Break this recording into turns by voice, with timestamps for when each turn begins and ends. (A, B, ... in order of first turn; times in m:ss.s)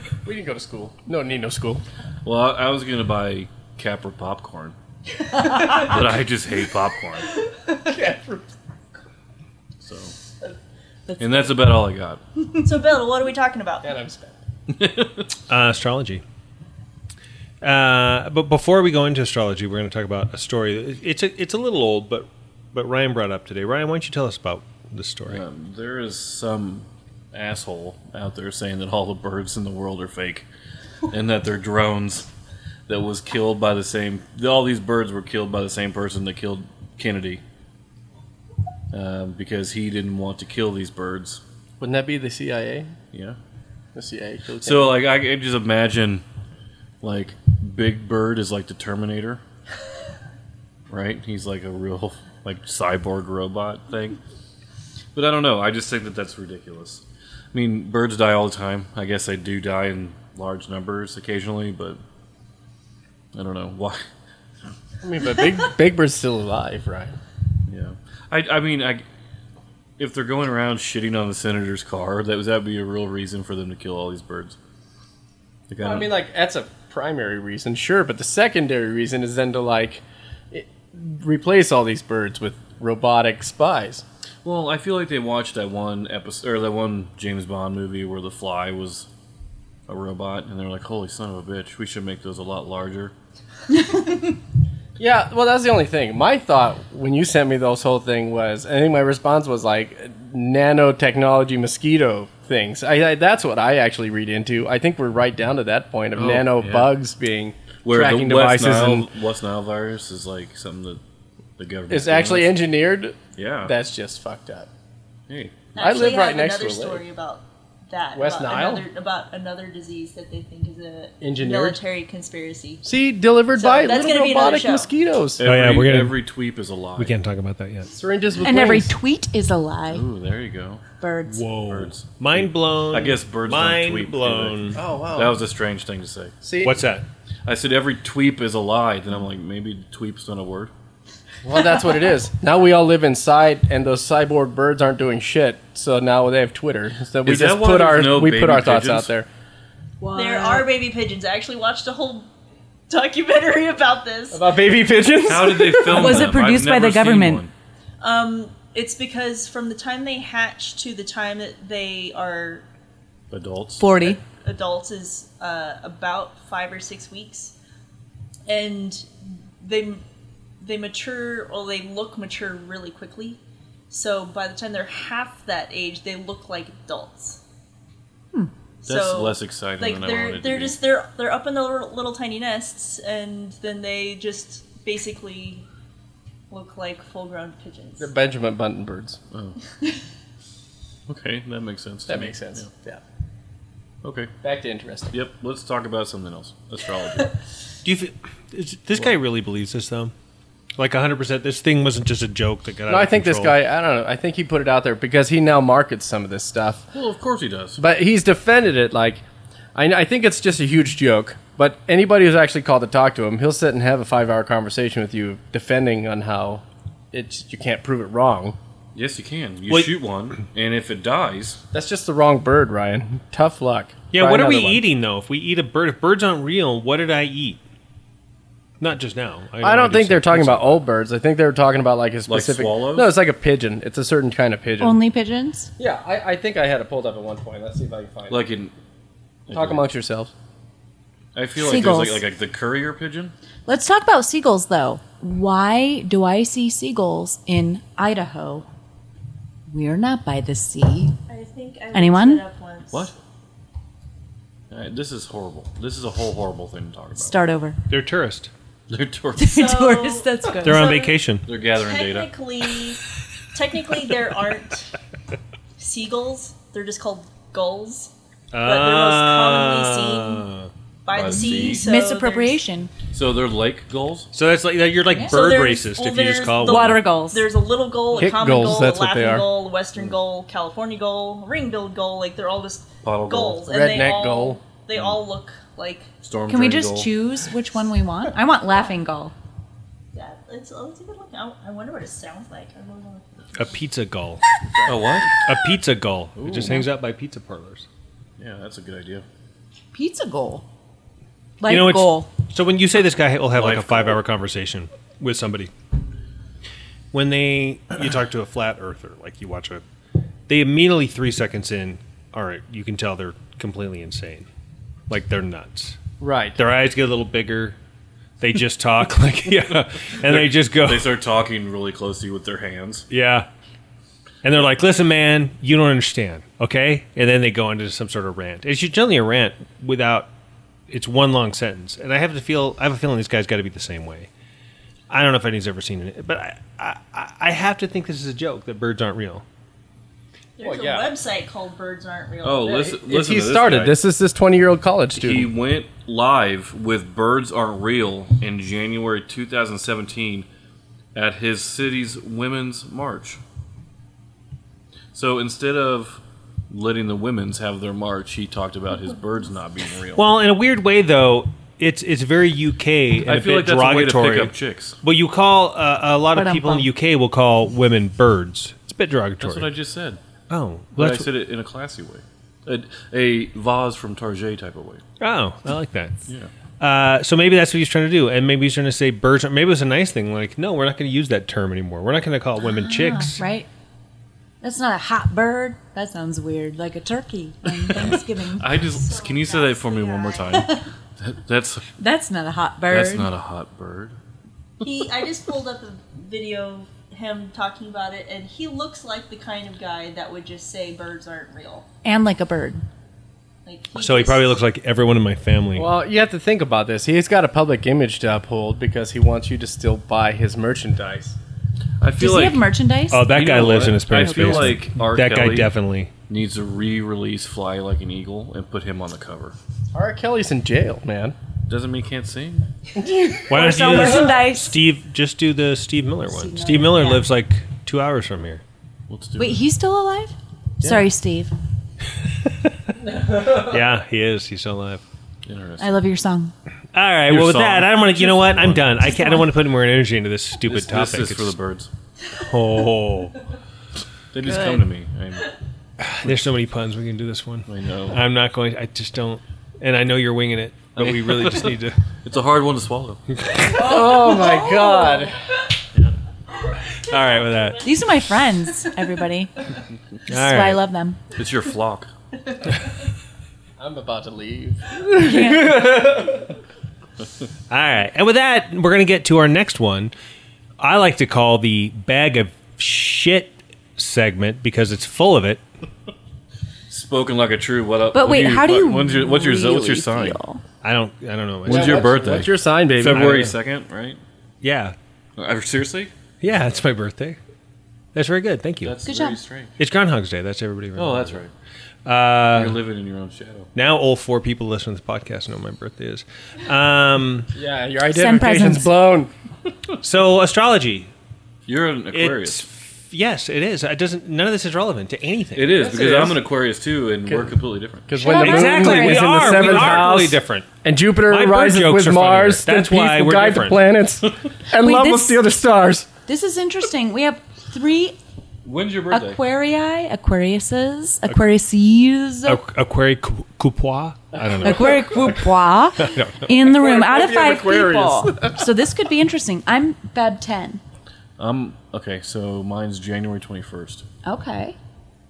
0:00.2-0:01.8 A
0:02.2-0:04.8 B
0:05.7-0:07.4 B
0:07.5-0:08.5 A
0:09.8-0:10.1 B
0:11.2-0:12.2 B
0:12.6-0:13.9 C
0:13.8-0:14.4 A
0:14.7-0:15.3 B
0:15.5-0:16.2 D
0:17.6-0:25.4 D
0:25.3-0:30.5 B
0:31.1-0:32.3 B
0:32.9-0:37.4 B
0:38.9-0:41.4 B
0:41.8-0:43.0 A
0:44.0-0:45.0 A
0:44.6-0:46.2 B
0:47.0-0:49.4 B
0:50.9-0:54.2 B
0:55.2-1:02.0 B
1:03.3-1:04.0 B
1:05.0-1:07.2 A
1:07.7-1:09.0 B
1:10.0-1:14.6 B
1:15.7-1:16.1 B
1:15.8-1:24.0 A
1:24.4-1:29.1 B
1:29.9-1:33.1 B
1:33.8-1:34.2 E
1:35.0-1:49.1 A
1:46.2-1:46.9 B
1:47.8-1:51.0 B
1:51.6-1:52.6 B
1:51.9-1:54.7 A
1:53.4-1:53.8 B
1:55.3-1:55.9 B
1:55.8-2:02.8 C
1:55.8-1:57.0 A
1:58.2-1:58.9 A
2:01.2-2:01.8 A
2:02.8-2:05.4 A
2:03.6-2:04.9 C
2:05.4-2:07.1 B
2:05.4-2:06.2 D
2:07.0-2:07.9 D
2:07.9-2:08.9 A
2:08.4-2:10.1 E
2:09.9-2:10.8 B
2:11.0-2:11.5 E
2:11.3-2:14.8 D
2:11.7-2:16.3 B
2:14.8-2:15.4 A
2:16.4-2:16.8 A
2:16.6-2:17.1 D
2:17.5-2:20.7 B
2:21.4-2:29.3 A
2:27.2-2:29.1 B
2:30.0-2:30.7 E
2:30.1-2:32.3 C
2:32.9-2:34.4 C
2:34.3-2:36.3 A
2:35.2-2:37.5 B
2:35.9-2:37.4 E
2:38.0-2:42.6 C
2:43.3-2:44.2 B
2:43.8-2:44.2 E
2:44.4-2:47.5 C
2:48.5-2:49.1 C
2:49.6-2:50.0 C
2:50.6-2:57.4 C
2:58.8-3:00.8 B
2:58.8-3:05.6 C
3:06.5-3:08.1 C
3:08.0-3:09.2 A
3:09.3-3:09.6 B
3:11.1-3:12.7 B
3:12.1-3:13.0 A
3:14.0-3:14.3 B
3:14.4-3:15.2 A
3:15.1-3:17.4 B
3:17.8-3:20.1 D
3:20.8-3:23.6 D
3:22.9-3:26.9 A
3:26.9-3:27.8 B
3:27.8-3:29.2 A
3:29.8-3:38.6 A
3:38.9-3:41.6 B
3:39.7-3:40.0 D
3:41.7-3:44.8 A
3:44.1-3:47.6 D
3:48.8-3:50.8 D
3:49.6-3:55.0 A
3:52.3-3:53.1 B
3:54.8-3:55.7 E
3:55.8-3:58.4 A
3:58.3-3:58.7 B
3:59.5-3:59.9 B
3:59.5-4:00.3 A
4:01.4-4:03.3 B
4:01.6-4:02.2 E
4:03.7-4:08.7 E
4:09.7-4:11.2 E
4:11.3-4:13.1 C
4:11.9-4:12.4 E
4:14.7-4:17.4 B
4:17.2-4:17.8 E
4:17.9-4:18.5 D
4:18.9-4:19.6 B
4:19.4-4:21.0 E
4:19.5-4:21.2 C
4:20.6-4:21.5 D
4:21.5-4:22.3 B
4:21.7-4:24.9 C
4:25.8-4:28.1 C
4:28.5-4:30.7 D
4:28.6-4:30.5 C
4:31.0-4:32.6 C
4:31.1-4:31.9 B
4:31.5-4:33.0 E
4:33.1-4:34.3 B
4:34.3-4:37.1 D
4:35.1-4:35.4 E
4:35.3-4:46.1 C
4:36.6-4:37.5 E
4:38.2-4:39.5 A
4:43.0-4:43.6 B
4:43.7-4:44.6 A
4:46.2-4:47.1 B
4:46.5-4:49.3 E
4:50.1-4:53.3 C
4:53.6-4:54.4 D
4:54.8-4:55.4 B
4:55.4-4:57.9 D
4:56.4-4:56.9 B
4:58.4-4:59.2 B
4:59.9-5:00.6 E
5:01.6-5:02.3 E
5:01.7-5:05.7 D
5:03.5-5:04.2 B
5:07.1-5:09.8 D
5:10.5-5:14.5 D
5:15.1-5:16.0 D
5:16.2-5:16.6 A
5:16.6-5:17.8 D
5:18.4-5:21.1 D
5:20.2-5:23.1 B
5:23.1-5:23.5 D
5:24.4-5:30.3 D
5:30.9-5:34.3 D
5:35.1-5:39.4 D
5:40.6-5:42.8 C
5:40.6-5:41.1 A
5:42.4-5:44.0 B
5:42.7-5:45.5 A
5:45.2-5:50.5 B
5:51.1-5:53.4 B
5:55.1-6:00.3 B
6:00.2-6:09.7 D
6:03.3-6:05.0 B
6:06.3-6:06.9 E
6:09.4-6:10.2 B
6:10.5-6:11.3 D
6:11.0-6:15.0 B
6:15.2-6:16.2 D
6:16.8-6:23.4 D
6:22.6-6:23.7 E
6:24.6-6:28.7 E
6:27.9-6:31.9 B
6:28.9-6:30.6 C
6:30.6-6:30.8 E
6:32.0-6:33.3 E
6:32.9-6:34.2 B
6:34.8-6:41.9 C
6:42.0-6:42.8 E
6:43.7-6:44.6 C
6:44.0-6:45.9 D
6:45.8-6:51.4 A
6:52.0-6:52.7 B
6:52.2-6:53.5 E
6:53.1-6:56.1 D
6:53.2-6:55.7 B
6:54.2-6:54.8 E
6:56.3-6:59.6 B
6:59.9-7:01.4 A
7:01.7-7:02.7 B
7:03.0-7:04.1 A
7:03.5-7:08.6 D
7:03.5-7:04.8 E
7:06.3-7:07.3 E
7:09.1-7:09.7 B
7:09.4-7:11.5 E
7:13.1-7:13.6 A
7:13.3-7:15.0 D
7:15.5-7:16.0 B
7:15.8-7:16.5 E
7:16.9-7:21.6 D
7:17.3-7:19.1 B
7:19.1-7:19.4 E
7:20.7-7:21.9 B
7:22.4-7:23.4 D
7:24.3-7:25.5 B
7:26.0-7:32.0 D
7:27.7-7:28.2 B
7:31.0-7:33.2 B
7:33.4-7:33.8 D
7:33.7-7:35.4 A
7:33.8-7:35.2 E
7:36.9-7:37.9 D
7:37.8-7:39.7 E
7:40.3-7:40.8 D
7:40.3-7:41.2 E
7:41.4-7:42.1 B
7:43.8-7:46.6 A
7:45.2-7:45.8 E
7:47.7-7:50.1 D
7:50.8-7:55.6 D
7:56.9-8:00.4 B
7:58.1-8:00.6 E
8:00.8-8:02.2 D
8:01.7-8:04.2 B
8:01.7-8:03.5 A
8:03.1-8:03.5 D
8:04.6-8:05.0 D
8:05.4-8:06.1 B
8:06.4-8:07.4 D
8:08.2-8:09.0 D
8:08.8-8:09.8 B
8:09.0-8:09.4 E
8:09.8-8:11.4 D
8:11.0-8:11.5 B
8:12.0-8:12.8 D
8:12.5-8:13.7 B
8:13.8-8:17.5 D
8:17.5-8:19.3 A
8:18.1-8:18.9 E
8:20.0-8:21.1 D
8:21.7-8:22.7 B
8:22.1-8:25.9 D
8:25.6-8:28.1 B
8:25.8-8:26.4 A
8:27.3-8:36.1 A
8:28.1-8:29.8 E
8:28.3-8:30.7 D
8:31.3-8:33.9 D
8:34.8-8:35.4 E
8:36.3-8:38.2 E
8:38.6-8:39.4 B
8:39.1-8:42.6 E
8:42.5-8:45.4 D
8:44.5-8:45.0 A
8:44.6-8:50.8 E
8:46.0-8:46.4 D
8:46.6-8:48.7 A
8:51.4-8:54.0 B
8:54.2-8:54.8 E